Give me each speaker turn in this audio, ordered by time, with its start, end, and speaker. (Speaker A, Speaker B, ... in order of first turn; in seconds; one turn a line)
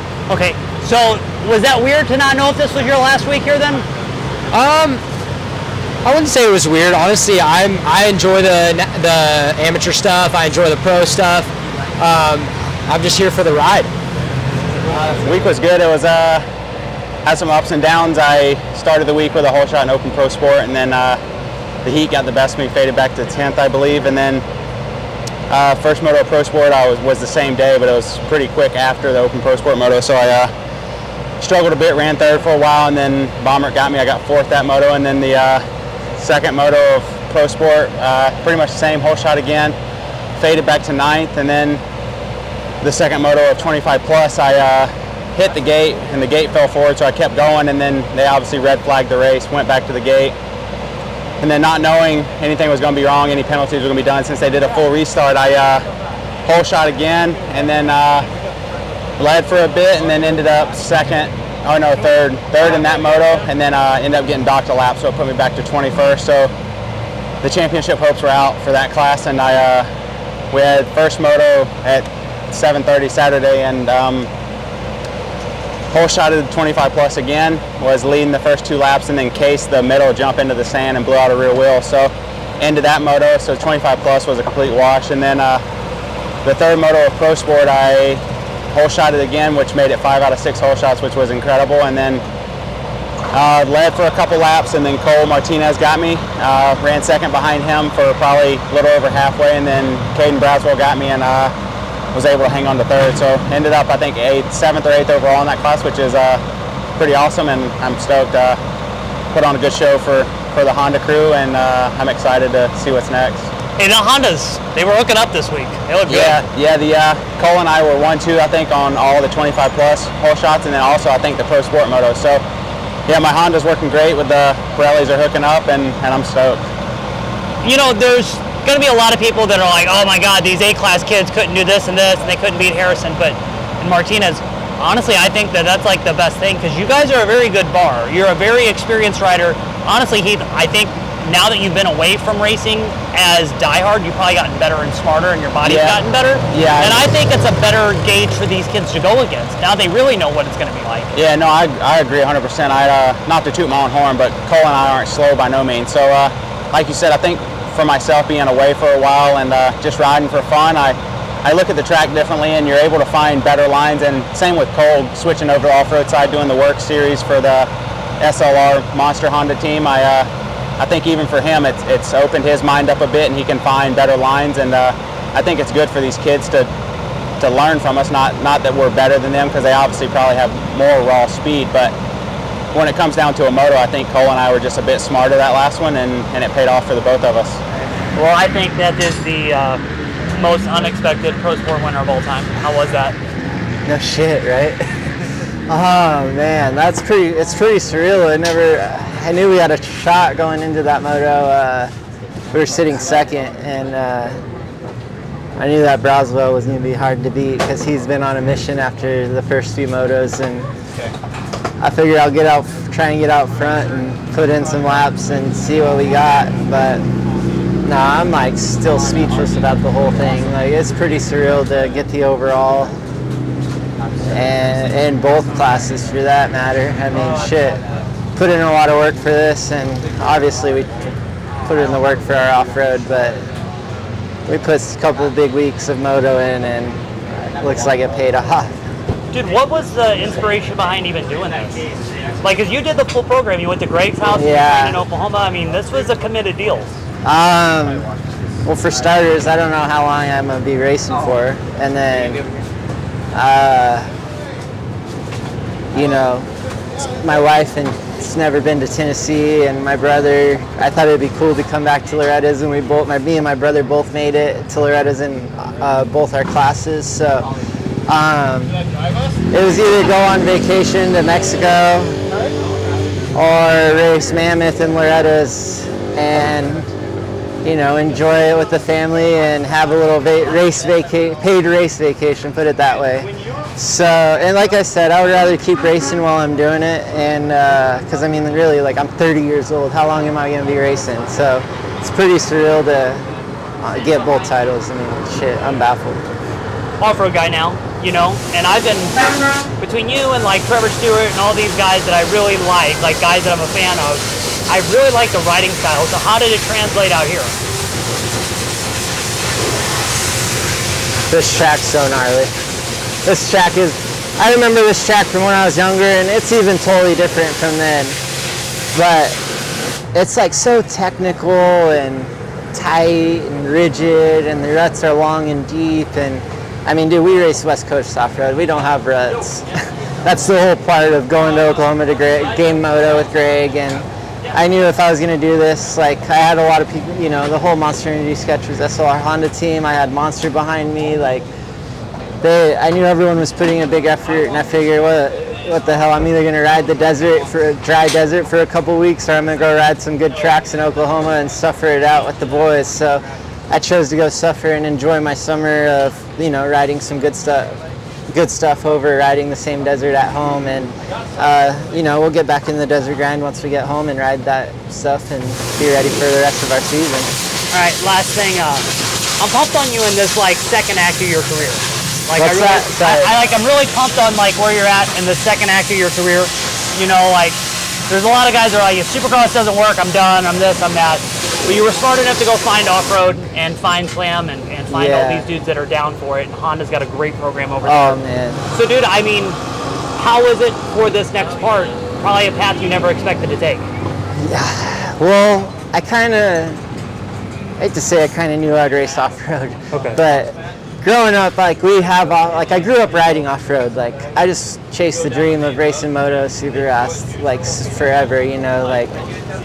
Speaker A: 0.3-3.9
Speaker B: 4.5-5.0
Speaker B: 6.0-13.9
Speaker C: 15.2-16.4
Speaker C: 17.2-21.2
Speaker C: 21.9-24.4
Speaker C: 25.5-30.5
Speaker C: 31.4-35.6
Speaker C: 36.2-39.8
Speaker C: 40.4-41.8
Speaker C: 42.8-50.4
Speaker C: 51.4-55.9
Speaker C: 56.5-58.3
Speaker C: 59.2-66.5
Speaker C: 67.4-69.9
Speaker C: 70.5-74.3
Speaker C: 75.9-85.6
Speaker C: 86.4-88.2
Speaker C: 88.7-92.2
Speaker C: 93.3-101.5
Speaker C: 102.1-106.4
Speaker C: 107.0-108.6
Speaker C: 109.3-113.5
Speaker A: 113.8-116.4
Speaker C: 116.1-122.4
Speaker C: 123.1-126.7
Speaker A: 127.6-151.2
Speaker C: 145.6-147.0
Speaker C: 151.2-167.7
Speaker C: 168.2-176.7
Speaker C: 177.4-181.9
Speaker C: 182.7-187.6
Speaker A: 188.2-189.8
Speaker A: 190.3-193.2
Speaker D: 193.9-194.8
Speaker D: 195.7-201.9
Speaker D: 202.5-204.4
Speaker D: 205.6-210.7
Speaker D: 211.8-217.0
Speaker D: 217.8-223.0
Speaker D: 224.3-227.8
Speaker D: 228.3-231.1
Speaker D: 231.7-233.5
Speaker D: 234.5-237.0
Speaker D: 237.6-238.8
Speaker A: 239.3-241.8
Speaker A: 242.4-247.0
Speaker D: 244.3-245.0
Speaker D: 247.2-252.5
Speaker D: 253.3-254.1
Speaker D: 255.9-267.5
Speaker D: 268.1-268.8
Speaker D: 269.5-272.2
Speaker D: 273.3-276.9
Speaker D: 277.6-293.3
Speaker D: 293.8-296.2
Speaker A: 297.0-299.2
Speaker A: 299.8-307.5
Speaker D: 311.3-312.5
Speaker D: 313.2-318.2
Speaker D: 318.9-319.4
Speaker D: 320.1-341.5
Speaker D: 342.4-367.3
Speaker A: 367.7-368.9
Speaker A: 369.4-388.2
Speaker D: 372.4-373.4
Speaker D: 384.9-385.5
Speaker D: 387.8-388.6
Speaker A: 388.7-389.6
Speaker A: 390.2-393.9
Speaker D: 394.4-396.8
Speaker D: 397.8-409.2
Speaker A: 399.9-400.2